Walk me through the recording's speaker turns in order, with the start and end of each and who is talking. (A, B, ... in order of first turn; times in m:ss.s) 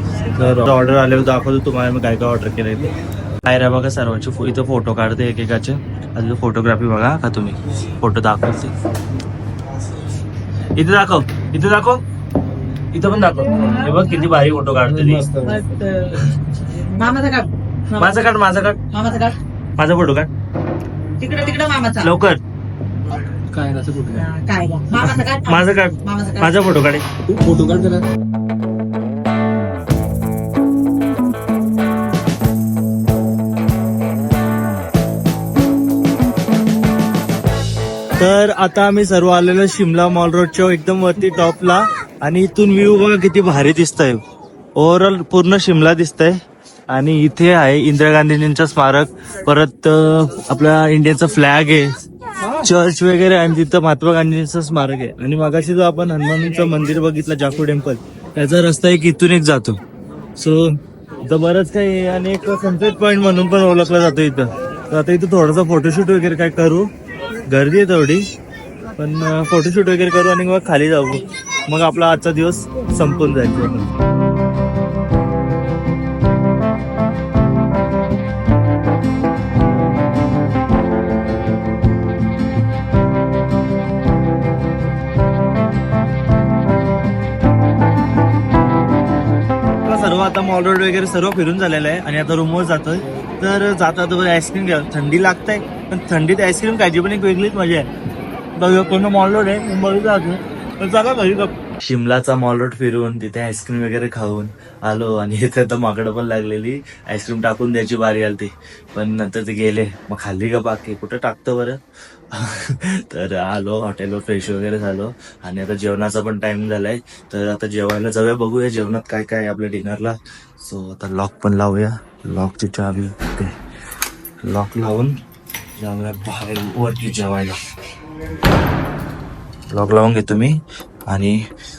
0:00.3-0:08.7 A
0:10.8-0:12.0 A
0:12.9-0:15.3 A
0:15.0-0:15.6 B
0:15.4-0:16.3 C
0:16.9-0:18.3 C
0:18.0-0:18.8 A
0:18.9-0:19.4 C
0:19.8-0:20.3 A
0:21.2-0:22.1 C
0:22.0-0:22.4 A
0:23.5-0:24.2 B
0:24.2-0:26.8 C
0:25.0-0:27.0 A
0:27.2-0:28.0 B
0:38.2-0:44.2 A
0:44.8-0:46.4 A
0:46.9-0:52.0 A
0:52.6-0:59.8 A
1:00.4-1:06.9 A
1:07.5-1:08.2 A
1:09.0-1:13.9 A
1:29.8-1:37.9 A
1:38.6-1:51.8 A
1:52.3-2:03.5 A
2:04.4-2:05.2 A
2:05.8-2:07.6 A
2:09.7-2:11.4 A